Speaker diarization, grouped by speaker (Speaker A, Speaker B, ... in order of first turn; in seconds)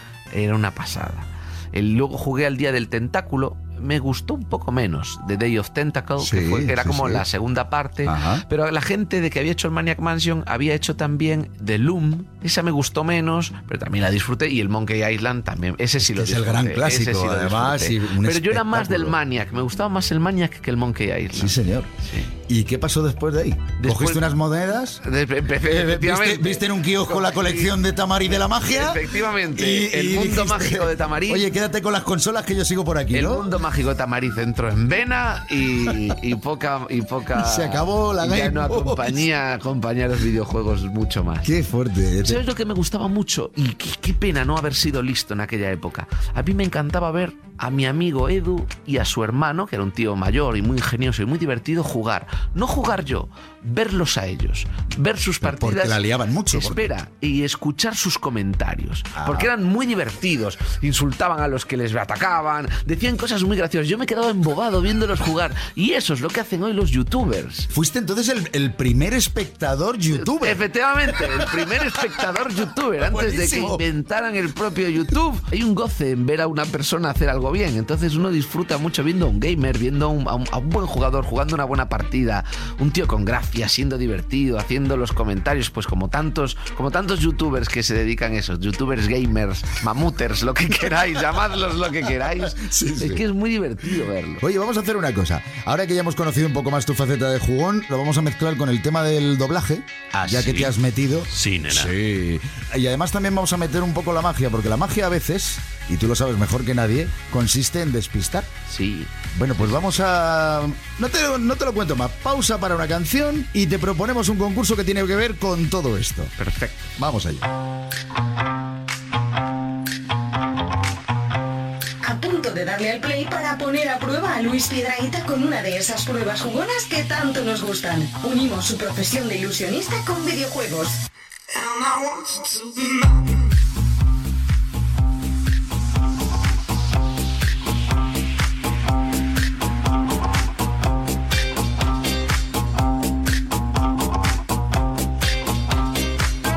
Speaker A: 0.3-22.3, 23.8-24.3, 25.0-27.7, 28.3-31.5, 33.1-41.5, 42.2-67.7, 70.1-94.4, 100.1-100.7, 101.3-101.9, 108.7-109.1, 116.4-116.9
Speaker B: 6.2-7.2, 8.0-8.4, 16.0-19.1, 21.3-21.9, 22.4-25.0, 25.6-33.5, 37.3-39.2, 41.4-42.4, 55.4-56.9, 59.1-59.5, 67.7-71.9, 73.0-73.8, 92.5-93.2, 94.4-108.5, 109.3-116.3, 117.0-117.5
Speaker C: 122.0-131.0